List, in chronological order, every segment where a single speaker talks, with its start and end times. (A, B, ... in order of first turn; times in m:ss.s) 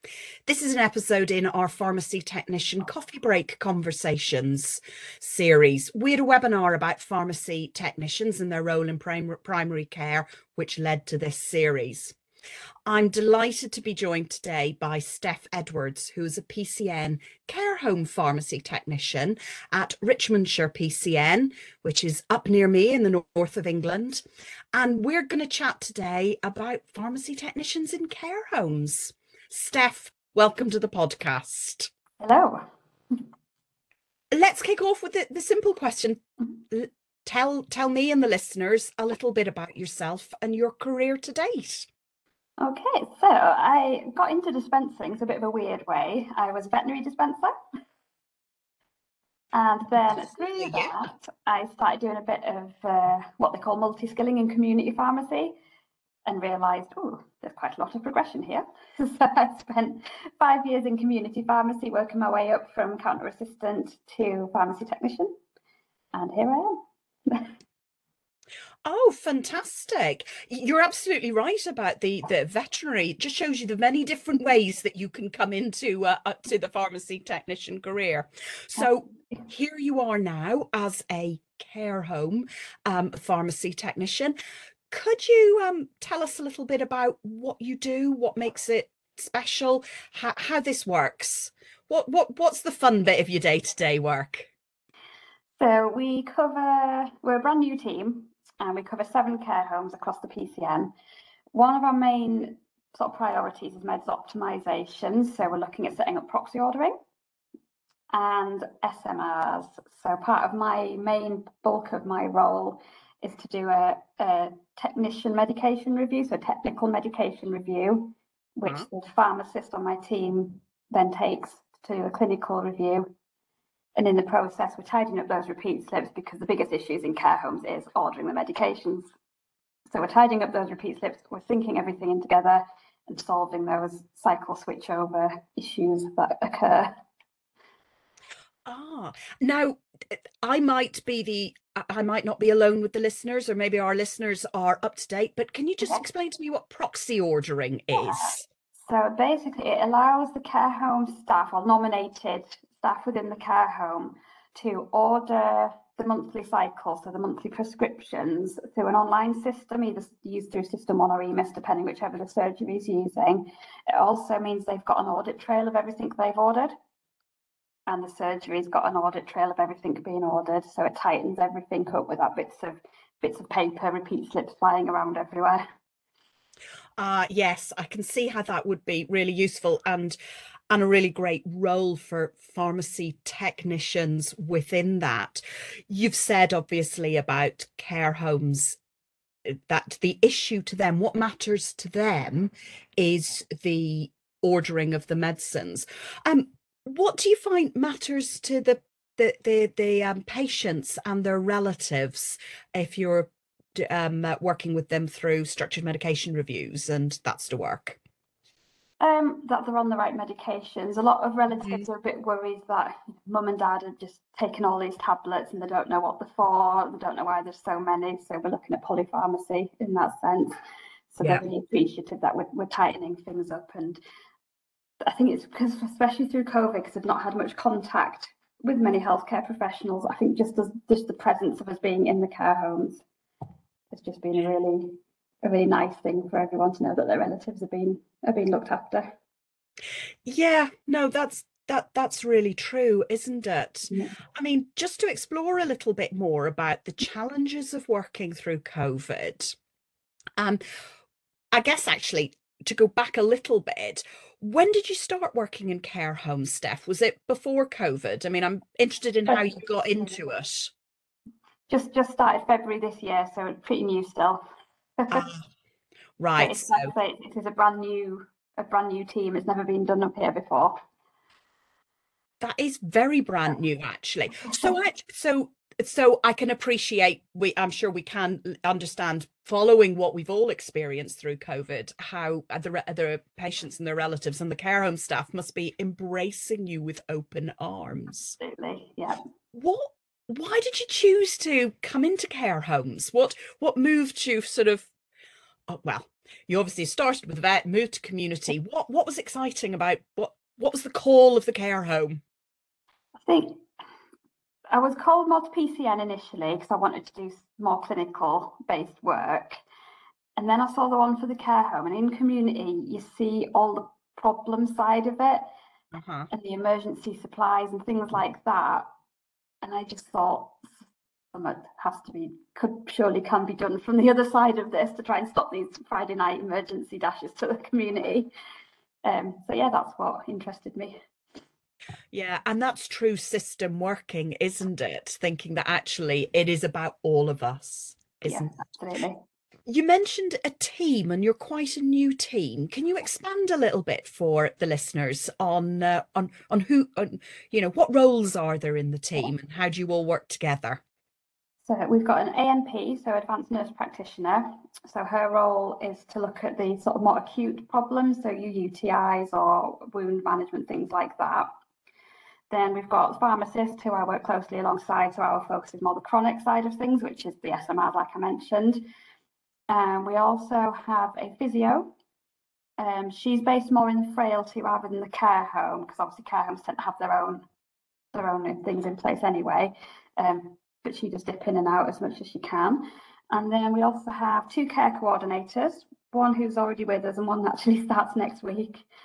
0:00.4-0:12.2 A
0:12.8-0:24.2 A
0:24.7-0:31.9 A
0:32.2-0:33.2 B
0:34.3-0:41.9 A
0:42.6-0:47.5 B
0:49.5-0:55.6 B
0:50.0-0:50.9 A
0:56.2-1:05.3 B
1:06.1-1:07.5 B
1:08.8-1:24.3 A
1:24.9-1:34.5 A
1:35.6-1:40.9 B
1:41.5-1:46.9 B
1:48.1-2:03.1 B
2:04.0-2:09.1 B
2:09.9-2:16.9 B
2:18.6-2:28.4 A
2:27.9-2:46.7 B
2:47.9-2:55.6 B
2:57.0-3:00.2 A
3:00.7-3:08.8 A
3:09.7-3:28.0 A
3:29.0-3:40.5 B
3:41.1-3:44.0 B
3:45.0-3:53.0 B
3:53.9-3:59.1 B
4:00.2-4:09.5 A
4:11.5-4:20.7 A
4:19.3-4:19.6 B
4:21.7-4:25.3 B
4:25.1-4:25.4 A
4:26.2-4:26.9 A
4:26.4-4:30.8 B
4:32.4-4:48.4 A
4:34.4-4:34.7 B
4:48.4-4:49.2 B
4:49.5-4:54.9 A
4:55.7-5:02.2 A
5:03.2-5:03.6 B
5:04.7-5:09.6 B
5:10.4-5:15.4 B
5:15.9-5:16.3 A
5:16.3-5:18.8 B
5:19.6-5:20.6 B
5:21.3-5:28.3 B
5:29.0-5:31.0 B
5:32.1-5:38.5 A
5:38.2-5:39.2 B
5:39.7-5:50.8 A
5:51.6-6:01.5 B
6:02.5-6:08.8 B
6:09.7-6:11.9 B
6:12.8-6:17.4 B
6:18.1-6:28.9 B